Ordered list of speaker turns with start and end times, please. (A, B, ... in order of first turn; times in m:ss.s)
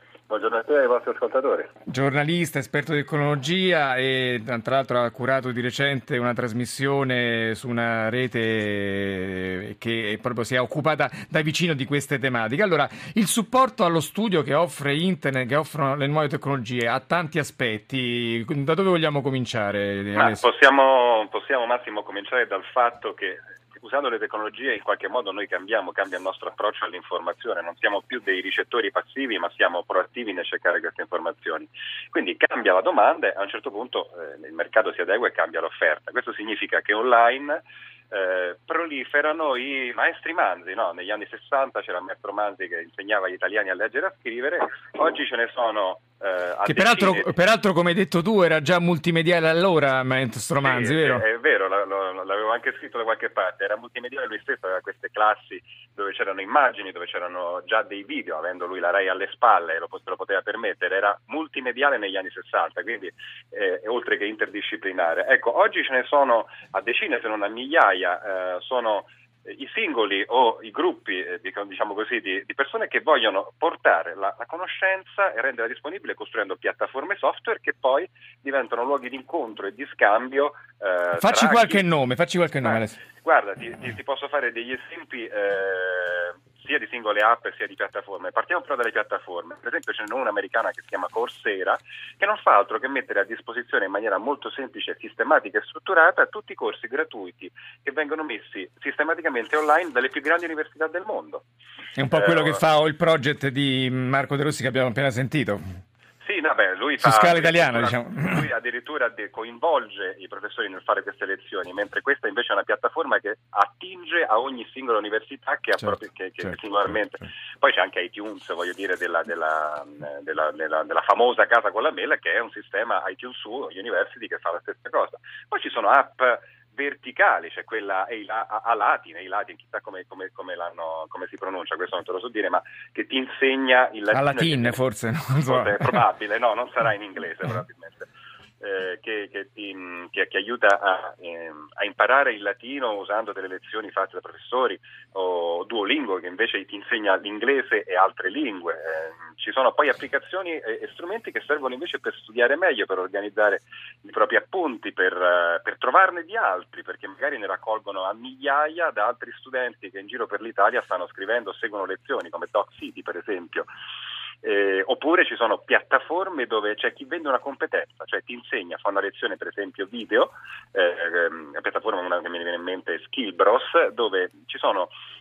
0:00.3-0:01.7 A
0:01.9-0:20.4 B
0:20.2-0:47.3 A
0:46.6-0:51.2 B
0:50.6-1:21.8 A
1:21.2-1:23.0 B
1:22.6-1:41.4 A
1:42.0-1:45.6 B
1:42.1-1:42.6 A
1:46.2-2:14.8 A
1:47.0-1:48.5 B
1:55.8-1:56.5 B
2:14.1-2:16.0 B
2:15.5-2:18.1 A
2:18.6-2:43.7 A
2:44.4-2:54.9 A